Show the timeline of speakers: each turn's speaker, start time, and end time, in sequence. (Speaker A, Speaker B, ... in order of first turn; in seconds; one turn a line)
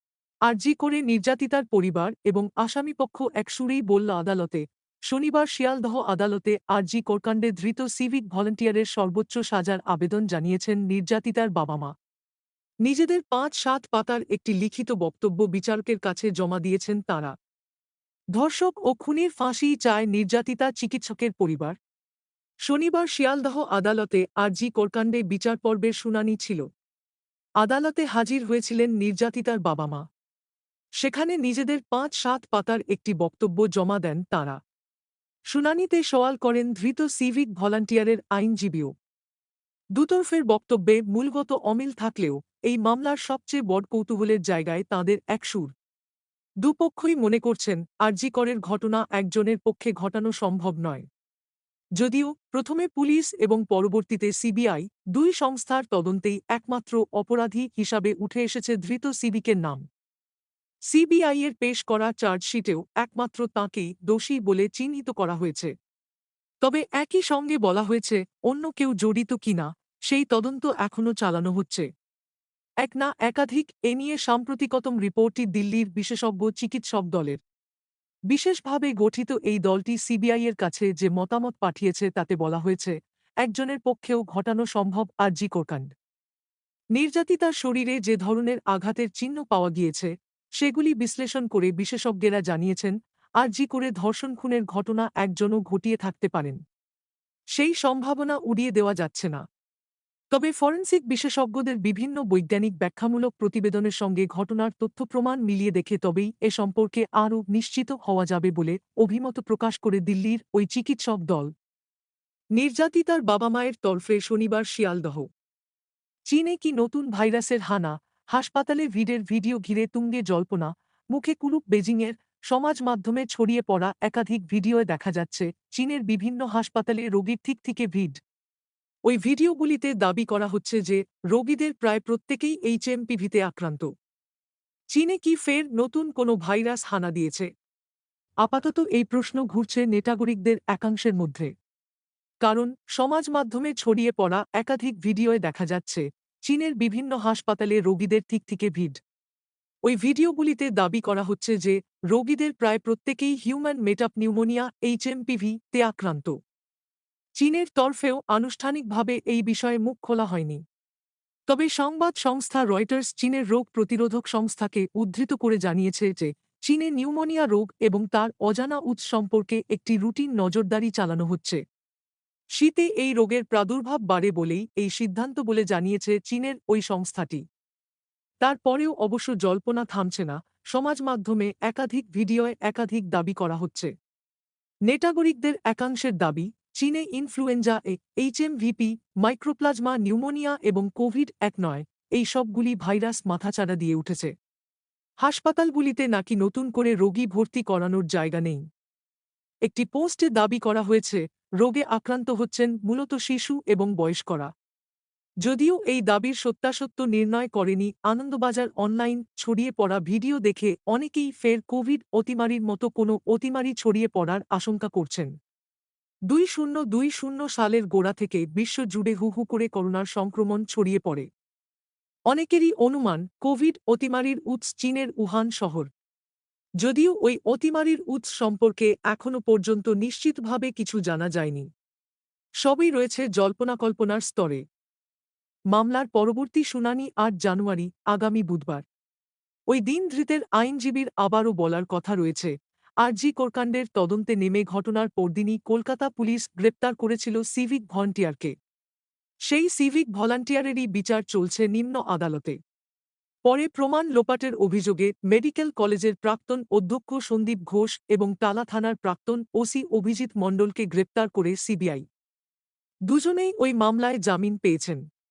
Speaker A: 0.5-11.9
Speaker A: 12.9-17.3
Speaker A: 18.4-21.8
Speaker A: 22.7-26.6
Speaker A: 27.6-30.0
Speaker A: 31.0-34.6
Speaker A: 35.5-38.9
Speaker A: 40.0-45.7
Speaker A: 46.6-51.0
Speaker A: 52.0-59.8
Speaker A: 60.9-65.7
Speaker A: 66.6-71.9
Speaker A: 72.8-77.4
Speaker A: 78.3-85.9
Speaker A: 87.0-96.6
Speaker A: 97.6-99.5
Speaker A: 100.3-111.5
Speaker A: 112.6-115.3
Speaker A: 116.3-128.2
Speaker A: 129.1-133.9
Speaker A: 134.9-137.5
Speaker A: 138.4-141.5
Speaker A: 142.4-149.0
Speaker A: 149.9-156.3
Speaker A: 157.4-160.6
Speaker A: 161.5-171.6
Speaker A: 172.6-177.4
Speaker A: 178.4-183.9
Speaker A: 184.9-194.3
Speaker A: 195.2-198.6
Speaker A: 199.7-204.5
Speaker A: 205.4-215.3
Speaker A: 216.3-221.3
Speaker A: 222.3-225.9
Speaker A: 226.8-231.7
Speaker A: 232.6-234.6
Speaker A: 235.7-238.8
Speaker A: 239.7-242.5
Speaker A: 243.0-248.5
Speaker A: 249.5-252.6
Speaker A: 253.4-262.1
Speaker A: 263.1-265.0